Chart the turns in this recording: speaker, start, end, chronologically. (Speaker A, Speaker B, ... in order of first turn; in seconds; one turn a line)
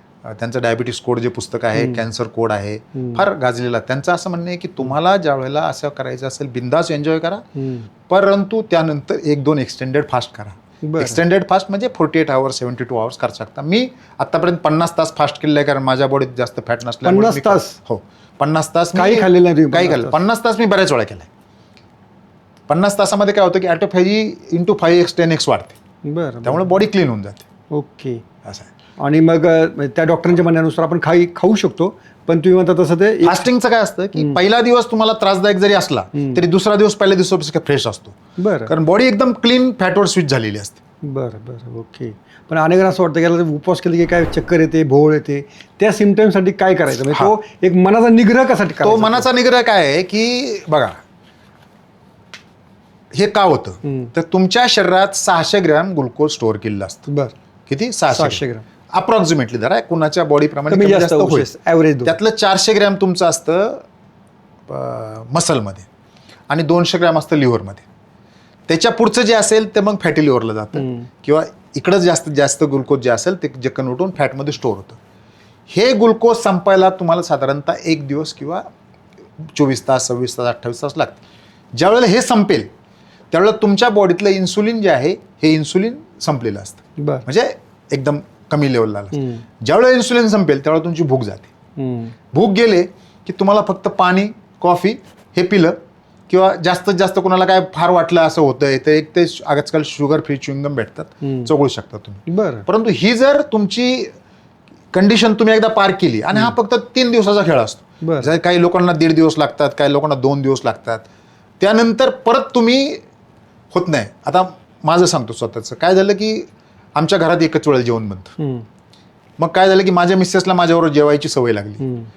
Speaker A: 0.2-7.4
Speaker B: 3.0-3.2
Speaker B: 7.6-7.9
Speaker A: 8.1-21.3
Speaker B: 10.8-11.2
Speaker B: 17.1-17.8
Speaker B: 18.9-20.2
Speaker A: 22.7-25.8
Speaker B: 26.1-26.8
Speaker A: 26.4-27.4
Speaker B: 27.7-28.2
Speaker B: 29.0-33.5
Speaker A: 33.2-40.8
Speaker B: 38.4-38.7
Speaker B: 41.0-49.3
Speaker A: 48.8-51.0
Speaker A: 53.1-57.0
Speaker B: 53.9-54.1
Speaker B: 57.1-57.3
Speaker A: 57.7-61.5
Speaker B: 58.1-58.6
Speaker B: 60.7-62.1
Speaker A: 62.0-63.8
Speaker A: 64.7-65.9
Speaker A: 66.5-67.8
Speaker A: 68.7-75.0
Speaker B: 70.8-71.1
Speaker A: 75.7-78.7
Speaker A: 79.4-81.2
Speaker A: 81.7-82.7
Speaker A: 83.3-91.5
Speaker B: 87.0-87.2
Speaker B: 89.1-89.4
Speaker B: 91.8-92.1
Speaker A: 92.3-95.8
Speaker A: 96.3-104.1
Speaker B: 101.2-101.5
Speaker B: 102.3-102.7
Speaker A: 104.9-111.1
Speaker B: 108.0-108.3
Speaker A: 111.6-113.0
Speaker A: 113.7-118.3
Speaker B: 118.4-118.7
Speaker A: 119.4-121.8
Speaker B: 121.8-122.1